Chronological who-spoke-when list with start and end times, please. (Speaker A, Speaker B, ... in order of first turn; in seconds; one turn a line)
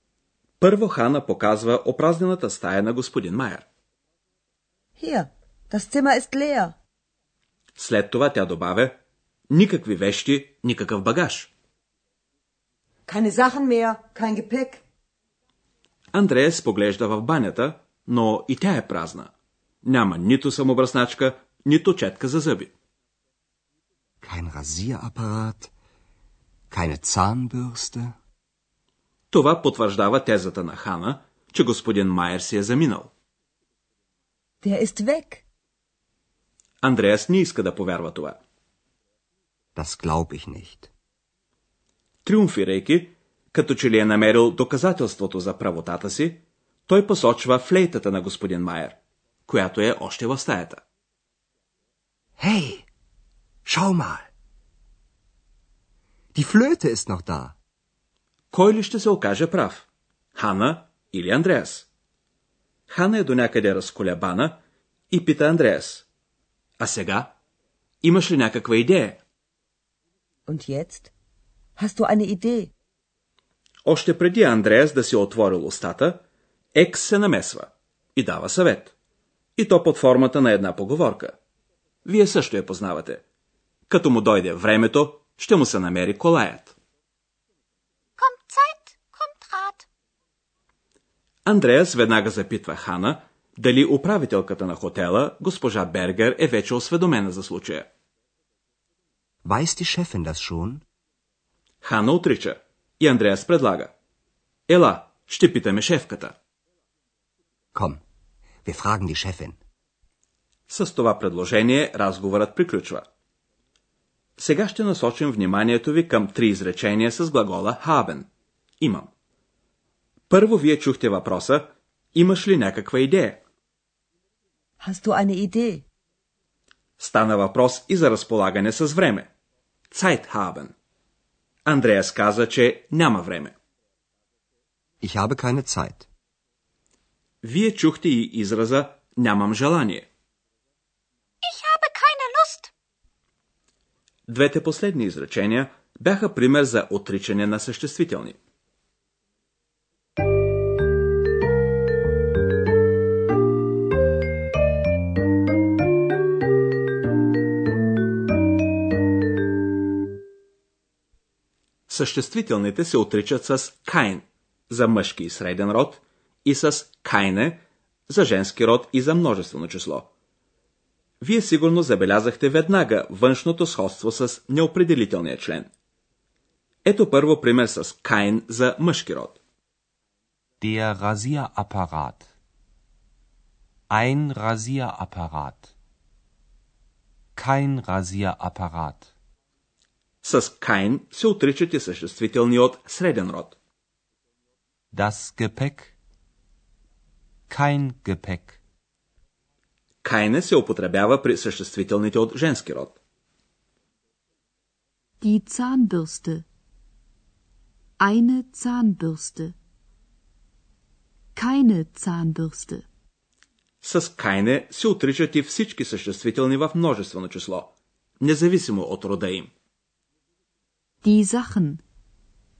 Speaker A: 0.6-3.6
Speaker B: 5.0-6.8
Speaker A: 7.8-9.0
Speaker A: 9.5-11.5
Speaker B: 13.1-14.8
Speaker A: 16.1-19.3
Speaker A: 19.8-22.7
Speaker C: 24.2-25.7
Speaker C: 26.7-28.1
Speaker A: 29.3-33.1
Speaker B: 34.6-35.4
Speaker A: 36.8-38.4
Speaker C: 39.7-40.9
Speaker A: 42.2-50.8
Speaker C: 52.4-52.9
Speaker C: 53.6-54.3
Speaker C: 56.3-57.5
Speaker A: 58.5-61.9
Speaker A: 62.9-64.6
Speaker A: 65.1-66.0
Speaker A: 66.8-67.3
Speaker A: 68.0-69.2
Speaker B: 70.5-71.1
Speaker B: 71.8-72.7
Speaker A: 73.8-76.2
Speaker A: 76.7-78.9
Speaker A: 79.6-81.3
Speaker A: 82.0-83.2
Speaker A: 83.9-86.7
Speaker D: 88.2-89.8
Speaker A: 91.5-97.9
Speaker C: 99.4-100.8
Speaker A: 101.8-103.9
Speaker A: 104.7-106.3
Speaker C: 107.7-108.0
Speaker C: 108.6-109.6
Speaker A: 110.7-113.0
Speaker A: 114.4-118.3
Speaker A: 118.8-119.1
Speaker A: 120.3-123.4
Speaker B: 124.8-125.8
Speaker A: 127.0-129.3
Speaker A: 129.9-130.7
Speaker A: 131.7-133.5
Speaker C: 135.0-136.1
Speaker A: 137.4-140.1
Speaker D: 141.4-142.7
Speaker A: 144.3-148.4
Speaker A: 161.9-170.1
Speaker A: 171.2-175.7
Speaker A: 176.8-179.4
Speaker E: 180.6-182.3
Speaker E: 183.9-185.7
Speaker E: 187.3-189.1
Speaker A: 190.2-193.6
Speaker E: 194.9-195.9
Speaker E: 197.5-198.6
Speaker A: 200.0-203.0
Speaker F: 205.2-206.4
Speaker D: 205.9-206.2
Speaker F: 208.0-209.5
Speaker D: 208.1-209.0
Speaker D: 211.4-212.7
Speaker F: 211.8-212.8
Speaker A: 213.8-219.5
Speaker F: 221.0-221.8